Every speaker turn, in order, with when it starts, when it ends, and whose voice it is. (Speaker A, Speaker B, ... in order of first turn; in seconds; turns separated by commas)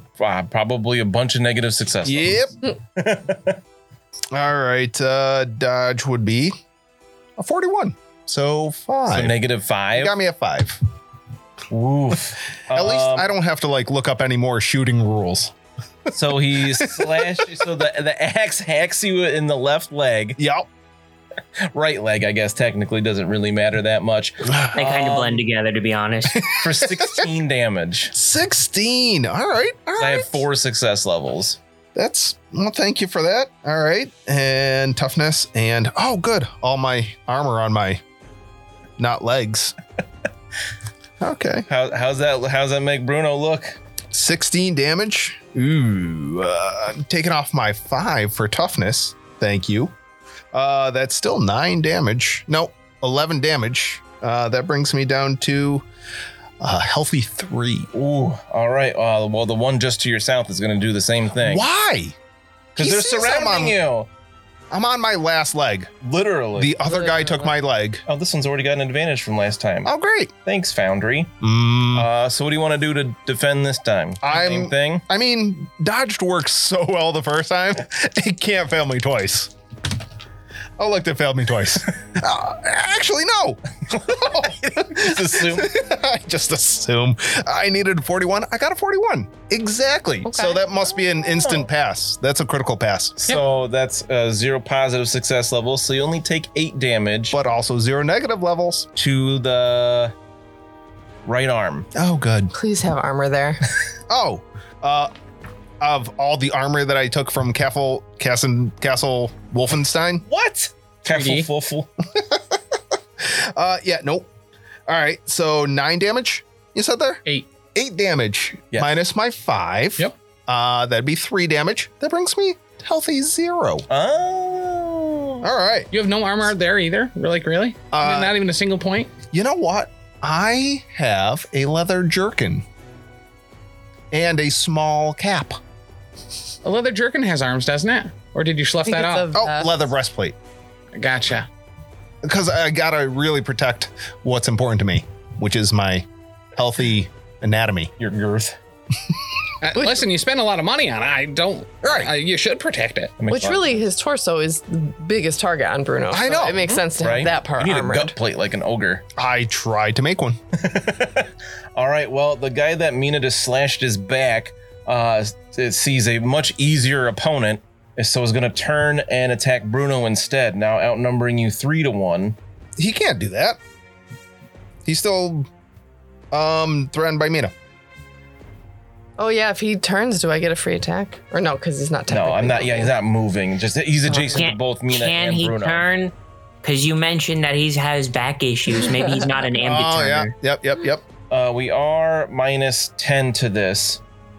Speaker A: 0.2-2.5, Speaker B: 2.0-2.5, Speaker A: 3.0-3.6, Speaker B: 4.3-6.5, Speaker B: 7.4-9.4, Speaker A: 9.1-10.1, Speaker B: 9.9-10.8, Speaker A: 11.7-13.3, Speaker B: 12.7-15.5, Speaker A: 16.1-20.4, Speaker B: 16.7-17.3, Speaker B: 20.4-20.7, Speaker A: 21.7-25.4, Speaker B: 24.4-24.8, Speaker C: 24.7-26.5, Speaker B: 26.4-27.3, Speaker A: 26.5-28.1, Speaker B: 28.1-30.4, Speaker A: 30.0-31.6, Speaker B: 31.9-38.0, Speaker B: 39.0-39.8, Speaker B: 41.2-41.7, Speaker A: 41.7-43.8, Speaker B: 44.1-49.9, Speaker B: 50.5-55.9, Speaker B: 56.6-57.9, Speaker A: 57.9-61.6, Speaker B: 61.4-62.1, Speaker A: 62.8-64.1, Speaker B: 62.8-63.8, Speaker B: 64.7-65.9, Speaker A: 66.0-66.8, Speaker B: 66.6-68.0, Speaker D: 66.9-67.5, Speaker A: 68.1-69.9, Speaker B: 69.8-70.3, Speaker A: 70.5-71.3, Speaker B: 71.4-72.1, Speaker A: 71.9-75.0, Speaker B: 74.2-79.5, Speaker B: 80.8-93.2, Speaker A: 83.9-85.7, Speaker D: 90.2-90.6, Speaker A: 93.2-97.4, Speaker B: 97.3-98.9, Speaker A: 99.0-100.1, Speaker A: 101.3-101.9, Speaker B: 102.0-102.5, Speaker D: 102.5-103.6, Speaker B: 104.1-105.1, Speaker B: 105.8-110.2, Speaker A: 110.3-111.9, Speaker E: 111.1-111.5, Speaker B: 112.1-112.6, Speaker B: 113.2-114.3, Speaker B: 114.9-117.2, Speaker B: 117.8-123.9, Speaker A: 123.9-125.5, Speaker B: 125.4-125.9, Speaker E: 125.9-129.1, Speaker B: 127.9-128.4, Speaker B: 129.3-132.7, Speaker B: 134.1-135.6, Speaker E: 136.6-139.3, Speaker D: 138.8-139.8, Speaker B: 139.3-140.3, Speaker E: 140.9-141.5, Speaker B: 142.2-147.9, Speaker A: 148.0-148.6, Speaker E: 149.6-153.1, Speaker B: 151.8-152.1, Speaker A: 153.2-153.8, Speaker D: 153.3-158.1, Speaker B: 156.1-156.8, Speaker A: 157.0-159.1, Speaker B: 159.2-160.4, Speaker A: 160.6-172.4, Speaker B: 172.8-173.6, Speaker B: 174.8-175.5, Speaker B: 176.3-177.5, Speaker D: 179.2-182.9, Speaker A: 182.1-185.9, Speaker C: 184.2-190.3, Speaker B: 189.6-191.0, Speaker A: 191.3-194.0